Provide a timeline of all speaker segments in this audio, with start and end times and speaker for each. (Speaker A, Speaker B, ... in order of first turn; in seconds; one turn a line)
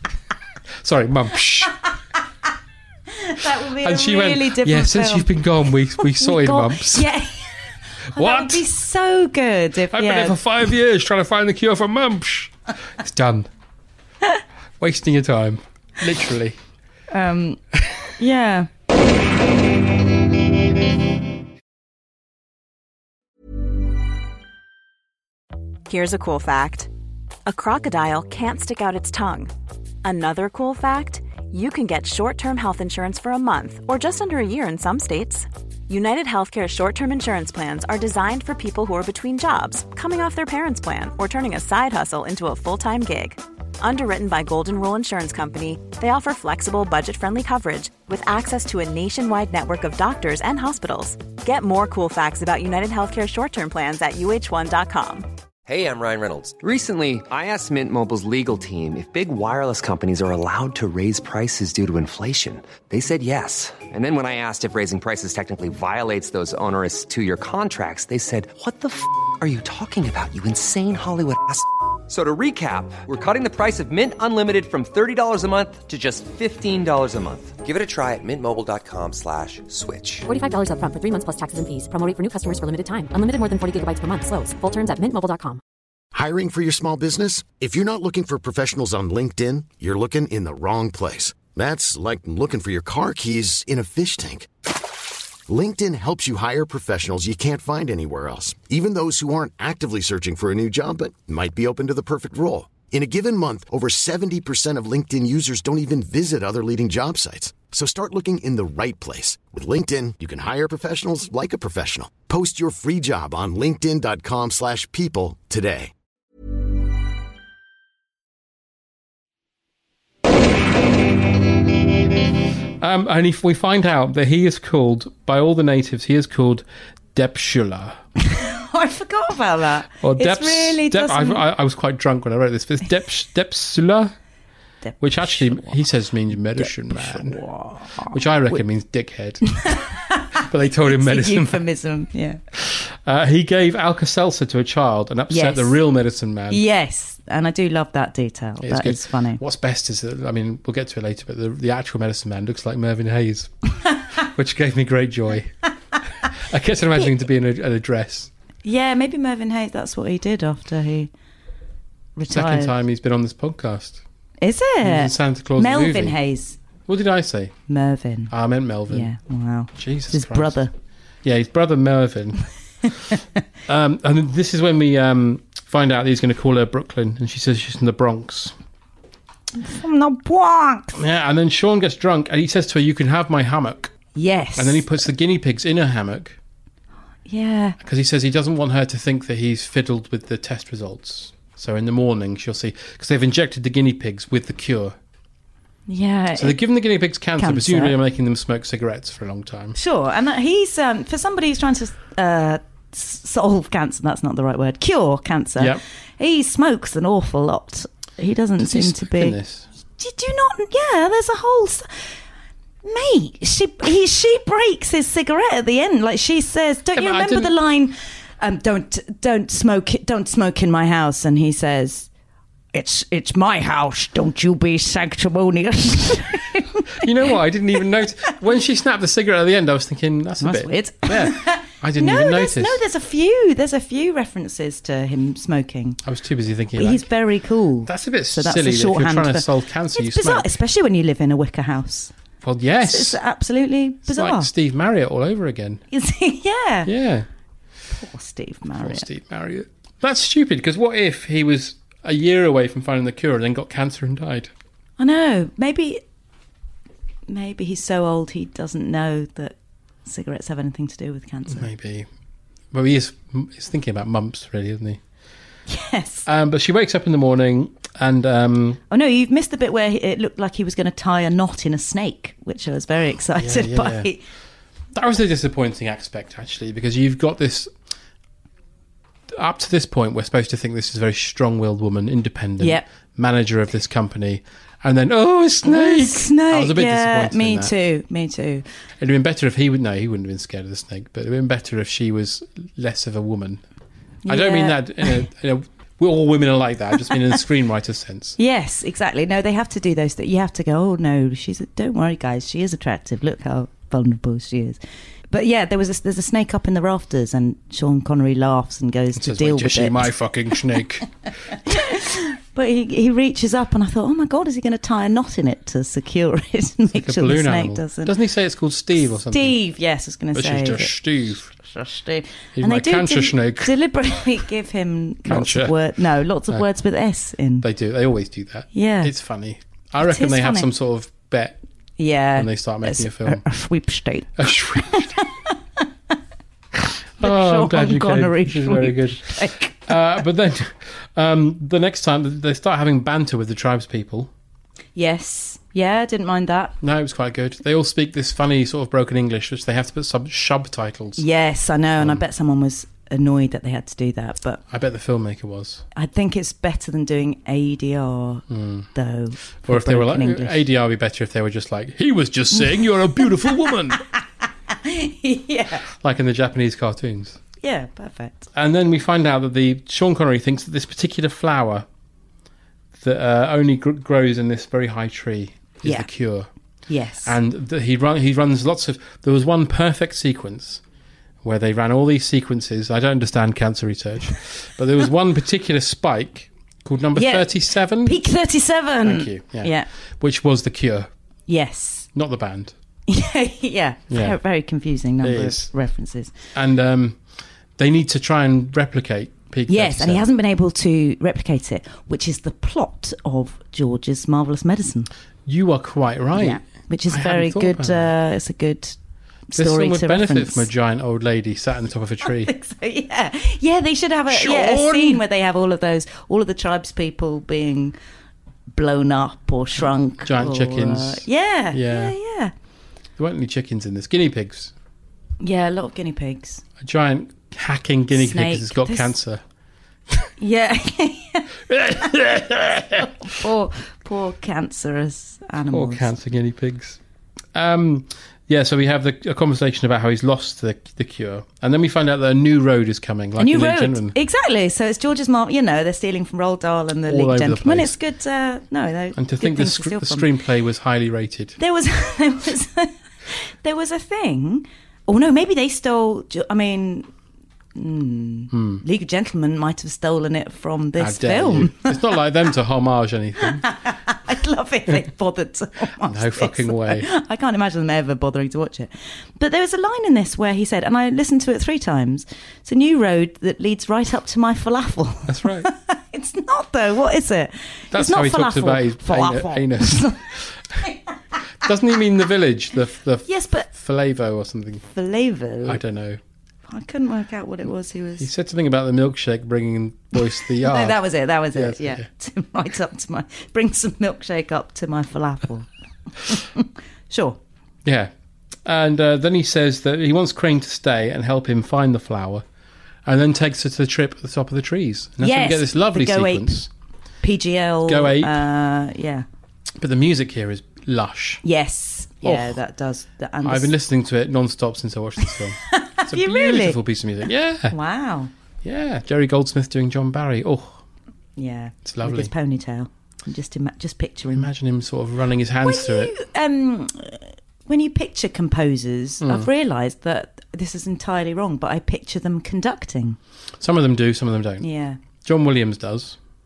Speaker A: 0.8-1.8
Speaker B: 3.1-5.3
Speaker A: 3.7-7.1
Speaker B: 6.0-10.4
Speaker A: 8.2-8.7
Speaker A: 9.9-13.5
Speaker A: 14.8-16.6
Speaker B: 17.1-17.6
Speaker B: 18.2-18.7
Speaker C: 25.9-26.9
Speaker C: 27.5-29.5
Speaker C: 30.0-55.3
Speaker D: 55.7-80.3
Speaker E: 80.3-85.6
Speaker F: 86.1-94.5
Speaker F: 95.5-115.9
Speaker A: 122.8-128.0
Speaker B: 128.2-131.4
Speaker A: 130.0-134.1
Speaker B: 134.8-135.8
Speaker A: 135.0-137.4
Speaker B: 136.6-138.6
Speaker A: 138.0-139.7
Speaker B: 139.5-142.4
Speaker A: 140.4-141.6
Speaker A: 142.6-146.6
Speaker B: 145.3-145.8
Speaker B: 146.5-149.4
Speaker A: 148.6-155.6
Speaker A: 156.3-158.3
Speaker B: 158.6-161.1
Speaker B: 162.2-162.7
Speaker A: 162.3-164.0
Speaker B: 164.4-166.6
Speaker A: 164.8-166.2
Speaker A: 166.9-167.6
Speaker B: 167.7-168.3
Speaker A: 168.3-169.1
Speaker B: 168.9-170.7
Speaker A: 169.8-170.6
Speaker A: 171.2-172.4
Speaker A: 173.7-178.6
Speaker B: 179.6-181.0
Speaker A: 181.0-183.9
Speaker B: 184.2-184.9
Speaker A: 184.6-186.4
Speaker B: 187.3-187.8
Speaker A: 187.8-195.0
Speaker B: 195.9-196.6
Speaker A: 196.3-199.8
Speaker B: 197.4-197.9
Speaker B: 199.8-209.4
Speaker A: 208.6-209.7
Speaker B: 210.0-212.1
Speaker B: 212.8-222.1
Speaker A: 216.9-217.6
Speaker B: 222.7-227.1
Speaker A: 227.0-232.8
Speaker B: 230.4-236.0
Speaker A: 236.0-237.1
Speaker B: 236.8-242.1
Speaker A: 237.9-240.5
Speaker A: 242.4-243.2
Speaker B: 242.8-244.5
Speaker A: 244.1-245.8
Speaker B: 245.9-246.9
Speaker A: 246.8-247.3
Speaker B: 247.9-249.1
Speaker A: 248.8-254.5
Speaker B: 255.0-256.0
Speaker B: 257.3-261.7
Speaker A: 261.5-262.1
Speaker A: 262.7-265.0
Speaker B: 265.7-266.3
Speaker A: 266.3-268.8
Speaker B: 268.9-274.2
Speaker A: 273.4-274.1
Speaker A: 274.9-277.7
Speaker A: 279.3-287.7
Speaker B: 282.6-282.9
Speaker B: 285.6-288.6
Speaker A: 289.0-293.6
Speaker B: 294.2-295.3
Speaker A: 294.3-298.4
Speaker B: 298.4-304.8
Speaker B: 305.3-310.1
Speaker A: 309.1-311.1
Speaker B: 311.7-318.1
Speaker A: 316.9-319.6
Speaker B: 319.3-320.9
Speaker A: 320.3-321.5
Speaker B: 321.6-327.7
Speaker A: 322.6-323.7
Speaker A: 325.3-325.8
Speaker A: 327.6-331.6
Speaker B: 328.7-329.1
Speaker B: 330.0-330.7
Speaker B: 332.0-335.6
Speaker A: 332.4-333.4
Speaker A: 334.4-335.1
Speaker B: 337.2-339.9
Speaker A: 337.2-344.3
Speaker B: 345.0-346.8
Speaker A: 346.8-351.2
Speaker B: 351.2-354.6
Speaker A: 352.0-352.2
Speaker A: 354.7-355.8
Speaker B: 355.9-360.6
Speaker A: 358.5-358.9
Speaker A: 359.6-364.0
Speaker B: 364.7-365.9
Speaker A: 365.9-367.4
Speaker B: 367.6-368.5
Speaker A: 368.5-371.9
Speaker A: 373.0-376.5
Speaker B: 375.8-376.1
Speaker B: 376.9-377.4
Speaker A: 377.2-380.8
Speaker A: 381.4-388.2
Speaker B: 387.2-389.9
Speaker A: 389.0-391.1
Speaker B: 391.5-392.1
Speaker A: 392.1-392.7
Speaker B: 393.1-396.4
Speaker A: 394.1-394.4
Speaker A: 395.2-395.7
Speaker A: 396.5-397.2
Speaker A: 397.8-400.3
Speaker B: 399.7-405.1
Speaker A: 405.5-408.1
Speaker B: 406.4-409.0
Speaker B: 409.5-410.7
Speaker A: 409.6-412.5
Speaker B: 412.2-417.9
Speaker A: 414.3-415.2
Speaker B: 418.8-422.5
Speaker A: 420.2-422.1
Speaker A: 423.2-424.7
Speaker B: 425.4-426.6
Speaker A: 426.8-429.4
Speaker B: 428.1-429.1
Speaker B: 430.4-432.2
Speaker A: 431.7-433.1
Speaker B: 432.9-436.1
Speaker A: 435.7-437.0
Speaker A: 437.5-444.1
Speaker B: 443.4-450.3
Speaker A: 447.1-447.9
Speaker A: 449.1-451.6
Speaker B: 451.6-457.1
Speaker B: 457.8-462.1
Speaker A: 458.5-458.8
Speaker A: 461.0-463.7
Speaker B: 463.4-480.9
Speaker A: 466.0-467.1
Speaker A: 475.3-475.7
Speaker A: 477.9-480.8
Speaker A: 481.6-484.9
Speaker B: 483.3-483.7
Speaker B: 484.9-485.8
Speaker A: 485.6-486.2
Speaker B: 486.7-488.3
Speaker A: 488.2-491.0
Speaker B: 490.2-495.7
Speaker A: 491.5-492.1
Speaker B: 496.2-497.4
Speaker A: 497.9-498.1
Speaker A: 498.6-502.4
Speaker A: 503.1-506.7
Speaker B: 505.2-506.6
Speaker B: 507.2-509.2
Speaker A: 507.9-508.3
Speaker A: 509.8-511.4
Speaker B: 511.4-513.7
Speaker A: 512.2-512.6
Speaker A: 513.4-517.8
Speaker B: 515.3-516.8
Speaker B: 517.7-518.3
Speaker A: 518.6-520.8
Speaker B: 521.4-524.5
Speaker A: 521.9-522.3
Speaker A: 524.4-526.1
Speaker B: 525.6-533.2
Speaker A: 529.2-529.5
Speaker A: 533.6-534.7
Speaker B: 534.6-535.0
Speaker A: 535.2-536.2